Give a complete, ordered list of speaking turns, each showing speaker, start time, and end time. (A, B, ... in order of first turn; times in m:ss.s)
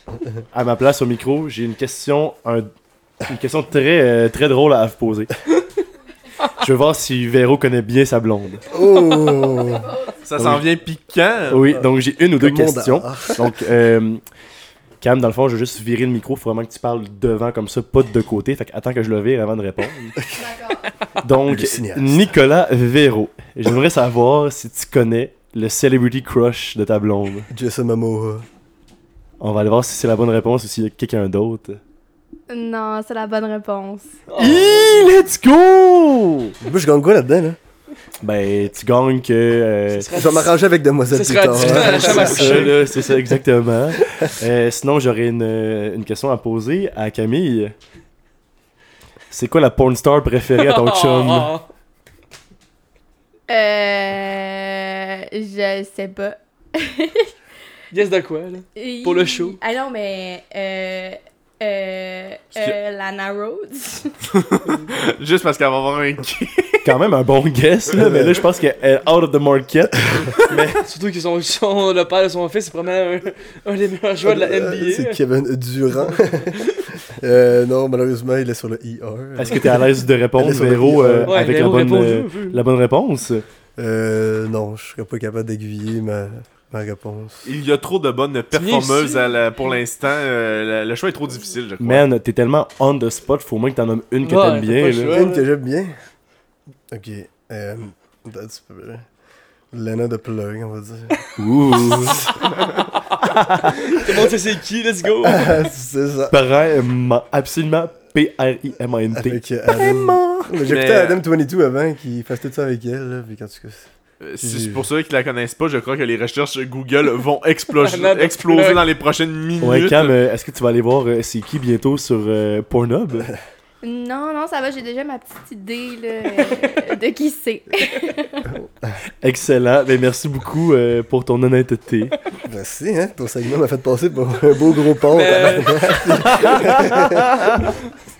0:00.5-0:02.7 A
0:03.2-0:05.3 A
0:06.6-0:08.6 A
0:08.7-0:09.9 B
0:09.6-0:10.2 C
0:10.3-0:11.6 D
0:10.4-0:10.7 A
0:11.5-0:14.2 A
0:11.7-0:13.5 B
0:15.0-0:20.2 A
0:20.3-0:20.9 C
0:21.2-0:27.5 A
0:21.5-0:22.3 B
0:27.5-0:28.4 B
0:29.4-0:31.8 A
0:32.5-0:34.2 C
0:34.3-0:35.0 E
0:34.4-0:36.5 A
0:36.6-0:37.6 B
0:38.2-0:40.3 A
0:39.9-0:40.5 E
0:40.1-0:42.9 B
0:41.1-0:42.8 E
0:41.6-0:47.7 A
0:49.3-0:51.5 A
0:50.6-0:51.6 E
0:53.5-0:57.3 C
0:57.9-0:59.6 E
0:58.8-1:04.2 C
1:04.3-1:06.9 D
1:06.8-1:10.8 A
1:08.0-1:08.4 B
1:10.8-1:15.2 E
1:14.2-1:21.4 B
1:16.0-1:16.8 E
1:19.4-1:23.4 A
1:21.3-1:22.6 E
1:23.8-1:27.4 B
1:27.4-1:32.0 D
1:28.5-1:29.2 E
1:31.8-1:35.2 A
1:34.2-1:35.4 E
1:35.1-1:35.9 B
1:36.9-1:39.0 B
1:39.7-1:41.2 B
1:41.4-1:42.3 A
1:43.2-1:43.7 A
1:43.6-1:45.7 E
1:45.2-1:46.3 B
1:46.3-1:50.5 A
1:49.1-1:53.9 B
1:50.7-1:51.2 D
1:54.2-2:00.2 D
1:54.4-1:54.8 B
1:57.7-1:58.8 E
1:59.6-2:03.3 A
2:03.8-2:08.5 C
2:09.2-2:12.1 A
2:12.4-2:17.4 B
2:15.1-2:16.5 E
2:16.2-2:17.7 A